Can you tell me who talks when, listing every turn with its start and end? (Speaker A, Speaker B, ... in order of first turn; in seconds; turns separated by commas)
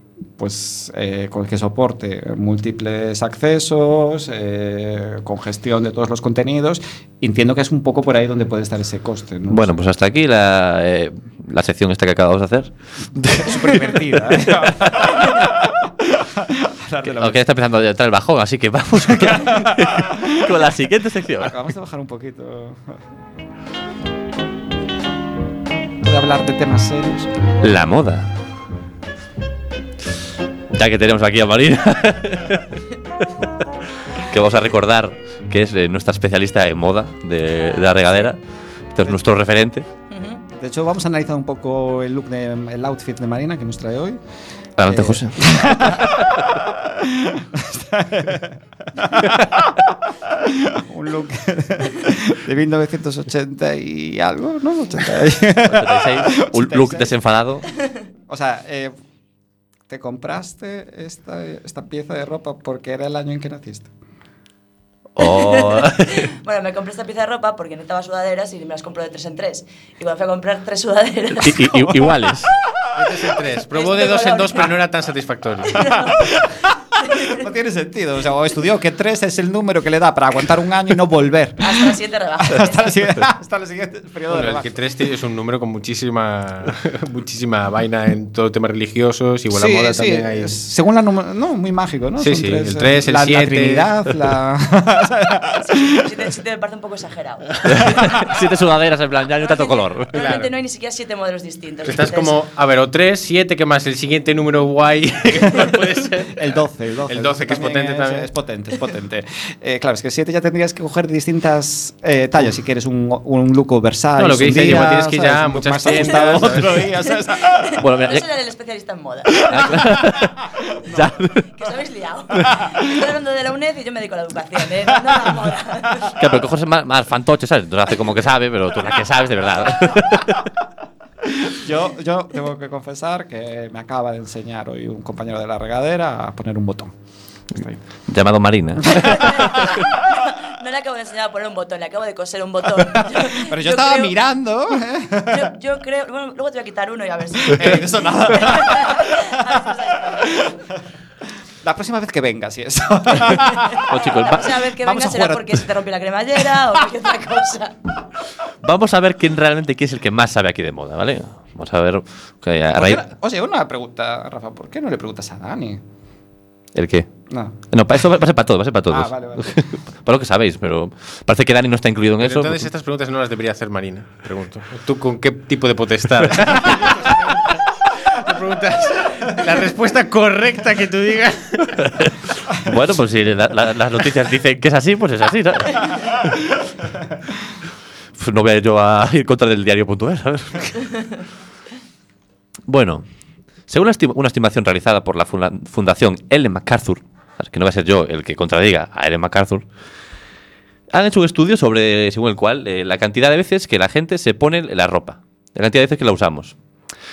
Speaker A: 0.4-9.8, Speaker B: 9.5-15.3, Speaker A: 13.2-17.4, Speaker B: 17.0-21.6, Speaker A: 19.1-20.6, Speaker A: 21.4-23.0, Speaker A: 26.0-27.3, Speaker B: 27.6-28.3, Speaker B: 30.7-32.8, Speaker B: 34.2-38.4, Speaker B: 38.9-39.9, Speaker C: 40.1-40.4, Speaker A: 40.5-44.2, Speaker B: 44.8-46.4, Speaker A: 44.9-57.1, Speaker B: 55.6-57.6, Speaker A: 58.3-59.0, Speaker A: 59.9-63.9, Speaker B: 65.2-66.3, Speaker C: 65.2-72.1, Speaker B: 71.4-72.5, Speaker D: 72.9-75.9, Speaker C: 73.7-74.8, Speaker C: 75.7-76.3, Speaker A: 76.0-84.8, Speaker C: 77.0-77.4, Speaker C: 81.6-83.1, Speaker D: 84.3-90.5, Speaker A: 89.5-96.3, Speaker D: 92.2-93.9, Speaker C: 95.6-98.3, Speaker B: 97.6-100.2, Speaker C: 99.4-102.3, Speaker D: 100.1-100.5, Speaker D: 101.8-108.3, Speaker A: 106.3-117.8, Speaker D: 114.2-116.8, Speaker C: 117.0-120.0, Speaker B: 117.8-118.2, Speaker B: 119.5-120.4, Speaker A: 119.5-121.2, Speaker B: 120.9-121.4, Speaker C: 121.4-126.2, Speaker A: 125.1-125.3, Speaker B: 126.1-130.5, Speaker A: 131.2-136.9, Speaker A: 137.5-137.8, Speaker B: 138.1-139.1, Speaker A: 138.8-139.8, Speaker C: 138.9-144.2, Speaker A: 143.0-145.5, Speaker C: 145.2-150.6, Speaker A: 147.4-150.8, Speaker A: 151.6-154.0, Speaker C: 153.3-157.7, Speaker B: 153.9-154.6, Speaker A: 154.6-155.7, Speaker B: 158.6-163.0, Speaker A: 162.8-165.8, Speaker B: 166.7-167.1, Speaker A: 167.3-167.6, Speaker B: 167.7-172.7, Speaker A: 168.9-169.6, Speaker D: 172.2-181.8, Speaker B: 181.8-186.3, Speaker A: 186.6-187.1, Speaker B: 188.2-190.9, Speaker B: 192.7-193.0, Speaker B: 193.7-199.7, Speaker B: 200.9-206.6